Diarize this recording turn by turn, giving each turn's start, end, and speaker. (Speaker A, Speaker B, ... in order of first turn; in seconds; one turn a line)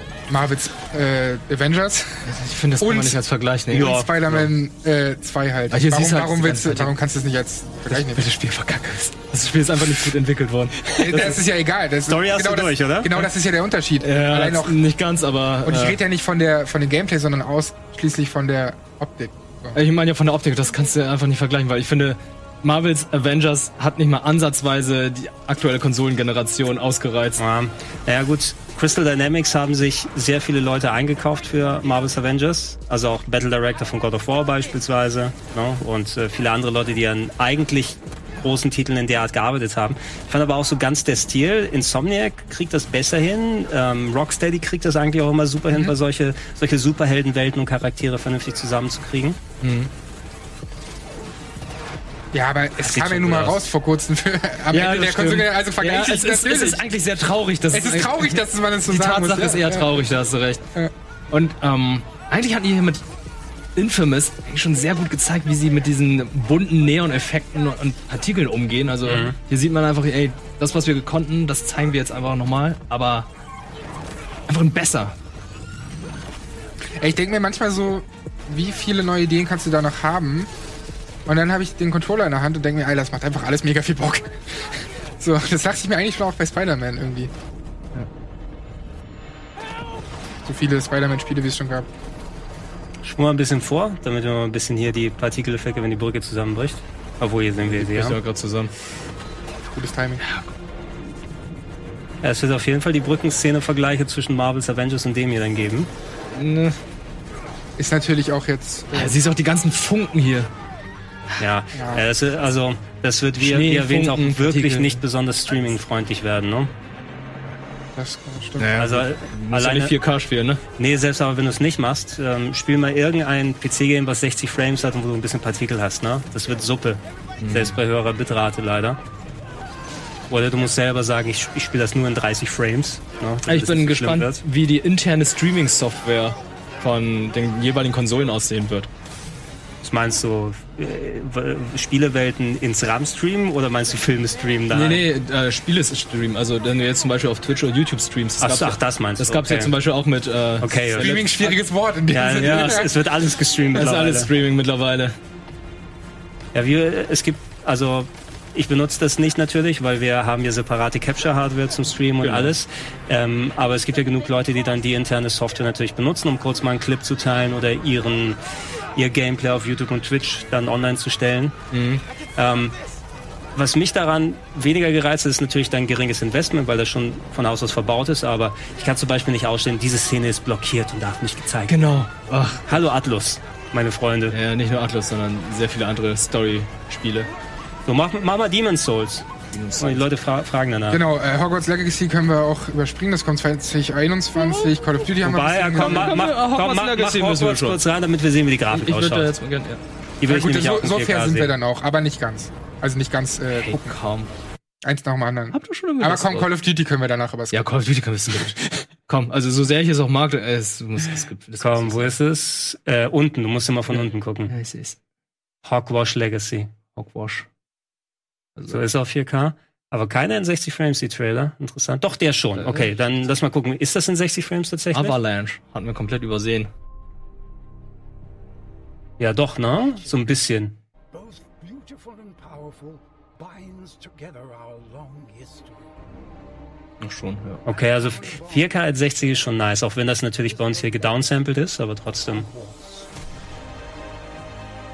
Speaker A: 0.3-2.3
Speaker B: 2.2-4.5
Speaker A: 2.8-3.2
Speaker C: 3.7-4.1
Speaker A: 3.7-8.3
Speaker B: 5.7-7.0
Speaker B: 7.9-11.4
Speaker A: 11.0-14.8
Speaker C: 12.1-13.2
Speaker B: 14.0-16.0
Speaker A: 15.7-19.8
Speaker B: 19.7-27.4
Speaker C: 27.4-49.4
Speaker B: 49.6-49.9
Speaker A: 52.3-56.9
Speaker C: 52.8-53.6
Speaker B: 54.7-60.6
Speaker A: 57.7-60.0
Speaker B: 61.3-63.0
Speaker B: 63.8-73.3
Speaker C: 69.0-69.4
Speaker B: 74.5-75.2
Speaker A: 77.0-80.5
Speaker A: 81.3-87.3
Speaker A: 90.5-91.9
Speaker C: 93.0-98.2
Speaker B: 97.6-98.7
Speaker A: 99.7-100.2
Speaker B: 100.2-100.5
Speaker C: 102.2-105.9
Speaker B: 106.3-106.8
Speaker A: 107.8-109.2
Speaker B: 108.9-110.5
Speaker C: 111.4-116.7
Speaker A: 111.7-112.1
Speaker B: 113.4-115.0
Speaker A: 118.0-118.8
Speaker B: 118.6-120.6
Speaker C: 118.8-120.0
Speaker C: 120.8-129.0
Speaker B: 127.4-127.8
Speaker C: 130.3-134.4
Speaker B: 133.5-138.9
Speaker C: 139.8-145.0
Speaker B: 144.7-151.6
Speaker C: 148.4-149.7
Speaker C: 150.6-151.2
Speaker A: 151.0-153.0
Speaker C: 152.1-154.3
Speaker B: 152.4-152.9
Speaker B: 153.8-155.2
Speaker C: 156.5-168.4
Speaker B: 162.2-162.6
Speaker C: 169.0-171.6
Speaker B: 171.7-172.0
Speaker C: 172.4-172.8
Speaker C: 173.6-182.0
Speaker B: 181.7-182.7
Speaker C: 182.7-184.4
Speaker B: 184.3-187.3
Speaker C: 187.9-189.3
Speaker B: 189.5-190.1
Speaker C: 189.8-191.0
Speaker A: 190.9-196.2
Speaker C: 195.2-199.3
Speaker B: 195.8-197.8
Speaker B: 198.7-199.8
Speaker C: 200.2-201.5
Speaker A: 200.3-204.0
Speaker B: 203.5-204.3
Speaker A: 204.8-207.7
Speaker B: 205.5-206.5
Speaker B: 207.5-212.1
Speaker C: 211.6-214.5
Speaker B: 213.9-215.0
Speaker C: 215.6-216.7
Speaker B: 217.0-217.5
Speaker B: 218.6-218.8
Speaker C: 218.7-225.2
Speaker B: 222.6-222.9
Speaker B: 224.9-226.7
Speaker C: 229.2-230.8
Speaker D: 229.7-230.4
Speaker D: 231.1-236.1
Speaker B: 237.0-237.6
Speaker D: 237.7-239.6
Speaker C: 237.7-242.5
Speaker D: 240.3-241.4
Speaker D: 242.2-243.2